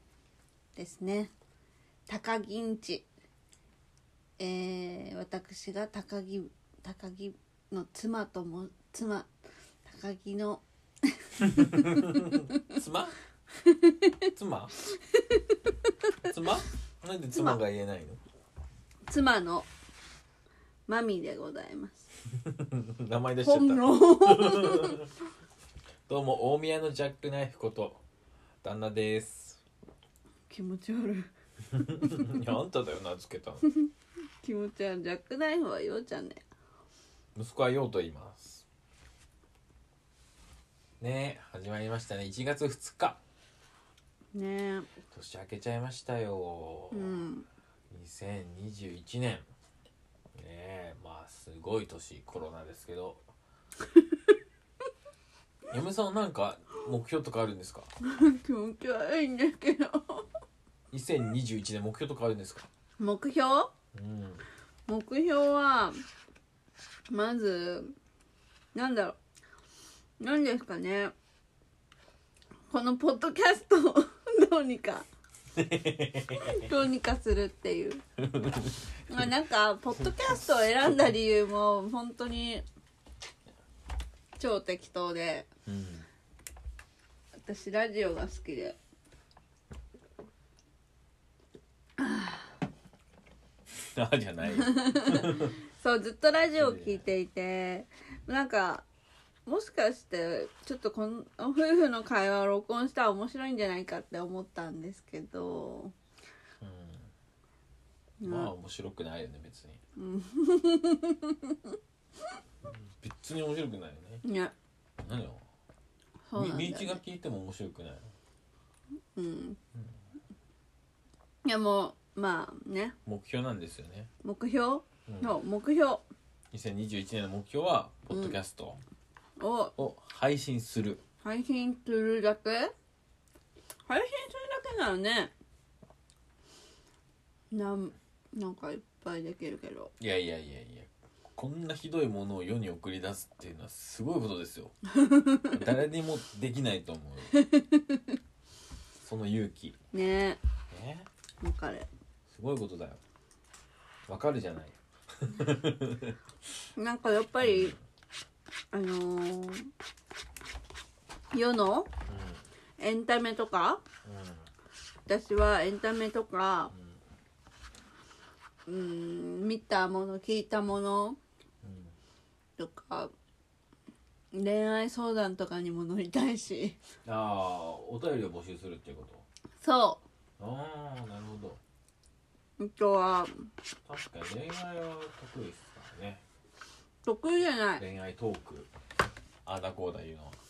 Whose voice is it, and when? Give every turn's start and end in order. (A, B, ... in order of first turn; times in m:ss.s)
0:00.8-0:01.3 A
0:02.1-0:03.1 A
0:04.4-0:09.3 A
0:09.8-0:12.6 A
0:11.4-0:13.2 B
0:13.6-0:14.3 A
0:14.4-0:14.7 B
0:14.9-0:16.1 A
0:16.2-0:18.2 B
0:19.1-0:19.7 A
0:20.9-0:22.1 A
0:22.4-0:25.1 B
0:23.4-0:25.1 A
0:26.1-0:28.0 B
0:28.6-0:29.6 B
0:30.5-0:32.5 A
0:31.7-0:33.7 B
0:33.6-0:33.9 A
0:34.4-0:36.4 A
0:37.4-0:38.6 B
0:41.0-0:43.2 B
0:44.3-0:44.9 A
0:45.1-0:47.3 B
0:46.9-0:47.5 A
0:47.9-0:49.5 B
0:50.4-0:53.2 B
0:55.7-0:57.9 B
0:58.0-1:00.3 A
1:00.9-1:02.7 B
1:03.0-1:03.7 A
1:03.9-1:04.4 B
1:04.9-1:06.0 A
1:07.1-1:08.0 A
1:08.7-1:09.2 A
1:10.2-1:11.1 A
1:12.7-1:15.1 A
1:15.6-1:16.7 B
1:16.4-1:18.0 A
1:18.2-1:18.9 B
1:19.1-1:22.6 A
1:24.4-1:25.5 A
1:25.7-1:26.1 B
1:27.4-1:28.8 A
1:32.0-1:32.5 A
1:33.7-1:35.6 B
1:34.5-1:38.8 A
1:36.6-1:37.1 B
1:39.5-1:45.9 A
1:46.6-1:47.1 B
1:48.2-1:48.5 A
1:48.2-1:49.8 B
1:50.0-1:51.8 A
1:52.7-1:54.2 B
1:54.2-1:54.5 A
1:55.0-1:55.4 B
1:56.3-1:57.0 A
1:56.4-1:58.0 B
1:59.2-1:59.6 A
2:01.4-2:03.0 A
2:03.1-2:04.1 B
2:04.2-2:06.0 A
2:05.1-2:05.4 B
2:06.5-2:08.8 B
2:08.1-2:08.4 A
2:09.4-2:09.8 A
2:09.8-2:11.0 B
2:11.2-2:12.7 A
2:13.9-2:15.3 A
2:17.5-2:19.9 A
2:20.0-2:24.8 B
2:24.9-2:25.6 A
2:25.4-2:27.4 B
2:27.3-2:28.0 A
2:29.0-2:29.8 B
2:29.9-2:30.4 A
2:30.7-2:31.1 B
2:31.4-2:31.9 A
2:32.3-2:33.0 B
2:34.1-2:36.2 B
2:36.8-2:37.7 A
2:37.4-2:37.8 B
2:38.7-2:39.7 A
2:41.3-2:41.9 A
2:42.1-2:42.4 B
2:42.8-2:43.8 A
2:44.0-2:44.5 B
2:45.1-2:46.7 A
2:46.7-2:47.0 B
2:48.7-2:51.2 A
2:51.6-2:51.9 B
2:52.6-2:53.1 A
2:54.3-2:56.8 A
2:57.0-2:59.2 B
2:59.6-3:00.0 A
3:00.4-3:01.6 B
3:02.6-3:03.5 A
3:03.9-3:06.2 B
3:07.0-3:07.8 A
3:07.8-3:08.7 B
3:09.5-3:10.4 B